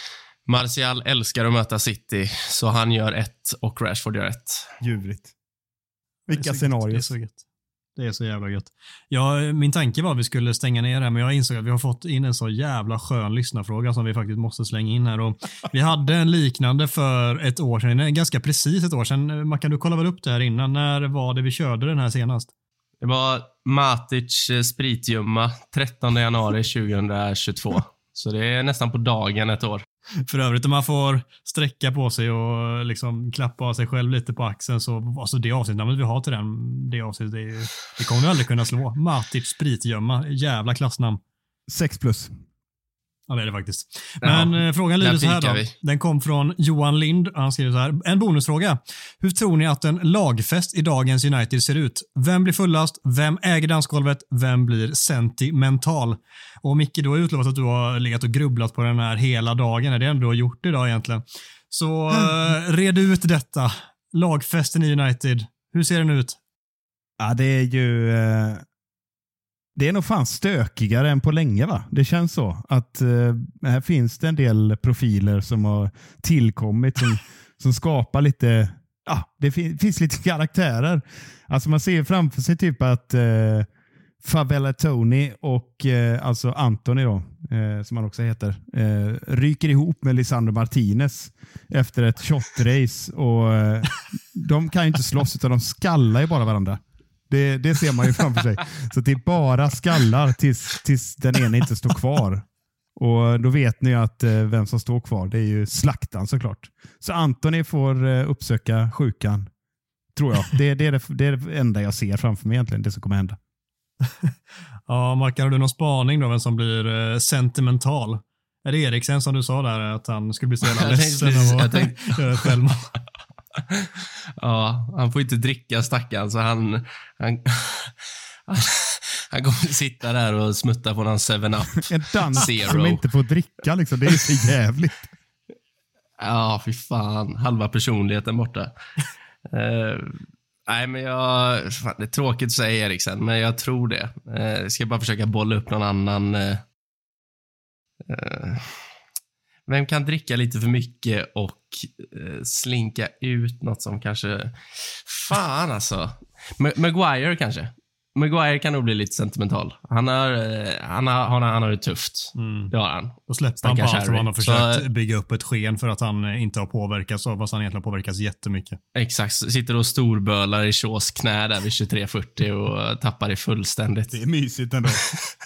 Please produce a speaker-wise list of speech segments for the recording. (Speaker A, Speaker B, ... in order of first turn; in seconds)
Speaker A: 0.5-4.7, 23.0-29.8, 44.2-45.7, 120.7-122.6, 123.6-133.0, 136.2-138.7, 139.5-146.6, 148.1-148.9, 149.7-164.8, 168.9-174.1
Speaker B: 4.8-5.3, 6.3-7.1, 41.7-42.4, 67.2-68.6, 69.8-83.7, 84.2-109.5, 110.2-113.4, 131.9-135.1, 174.1-175.1
Speaker C: 6.3-7.4, 8.0-22.5, 30.3-41.2, 43.3-66.4, 114.0-114.3, 114.9-122.9, 162.4-162.7, 163.3-168.8